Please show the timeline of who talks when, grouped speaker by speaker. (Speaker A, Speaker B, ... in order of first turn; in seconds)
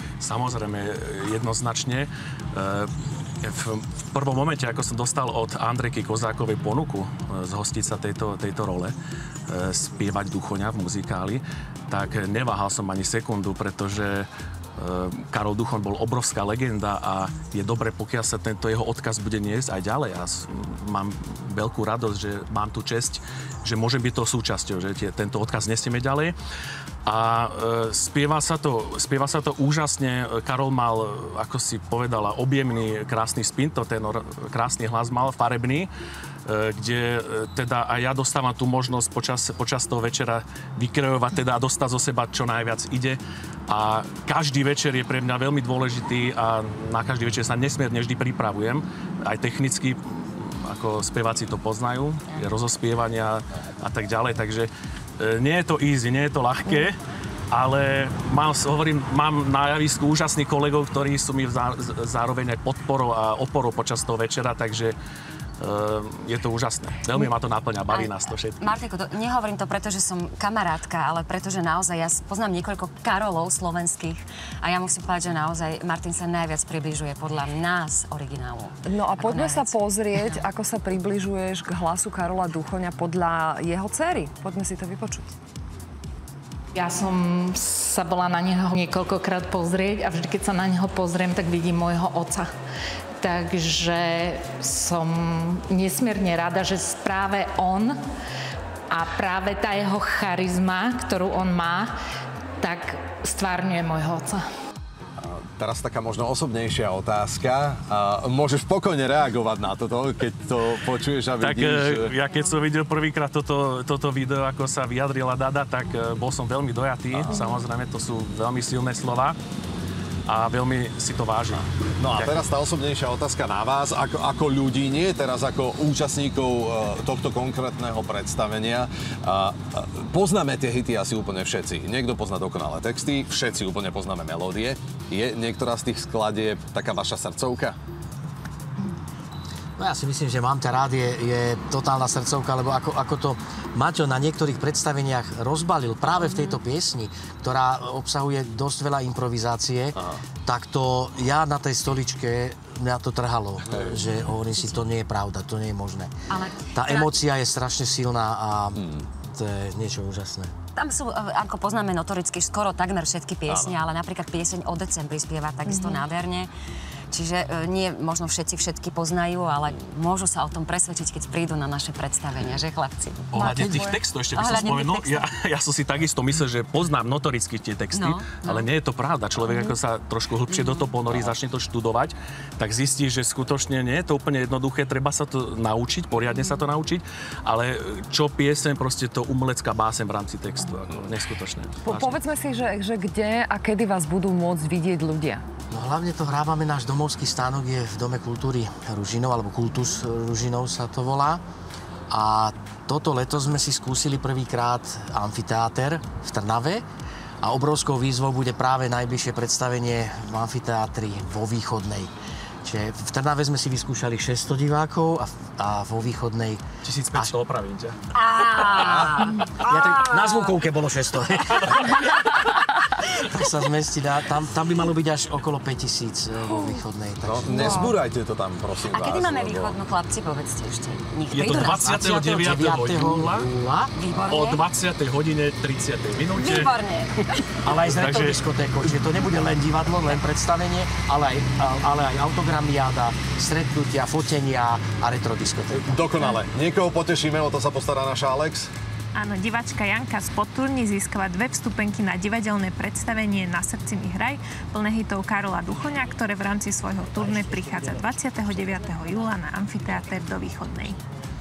Speaker A: 0.2-2.9, 3.4-8.9, 9.5-26.3, 27.1-35.9, 36.5-57.0, 57.5-65.0, 65.6-68.7, 111.4-119.4, 120.3-122.5, 173.3-192.2, 216.8-218.0, 231.3-233.5, 234.2-236.8, 237.8-239.0
Speaker B: 67.9-79.7, 146.2-146.6, 154.5-154.8, 156.3-157.2, 160.8-166.5, 167.1-175.3, 177.9-178.7, 179.4-179.7, 180.5-180.9, 186.3-186.6, 218.1-220.6, 228.8-231.9, 233.9-234.6, 236.3-237.4
Speaker C: 78.8-85.3, 191.8-195.4
Speaker D: 86.8-92.5, 93.2-98.0, 98.9-101.9, 102.6-104.4
Speaker E: 105.2-112.2, 117.1-117.4, 122.0-137.8, 153.7-154.1, 158.8-159.0, 163.5-163.8, 218.9-219.2, 227.2-229.8, 245.8-248.7
Speaker F: 139.8-156.1, 156.7-160.5, 173.4-173.8, 195.7-201.4, 202.1-206.8, 207.4-212.1, 212.6-217.3, 218.9-221.9, 223.1-227.9, 231.6-233.9, 237.6-246.0
Speaker G: 249.2-261.0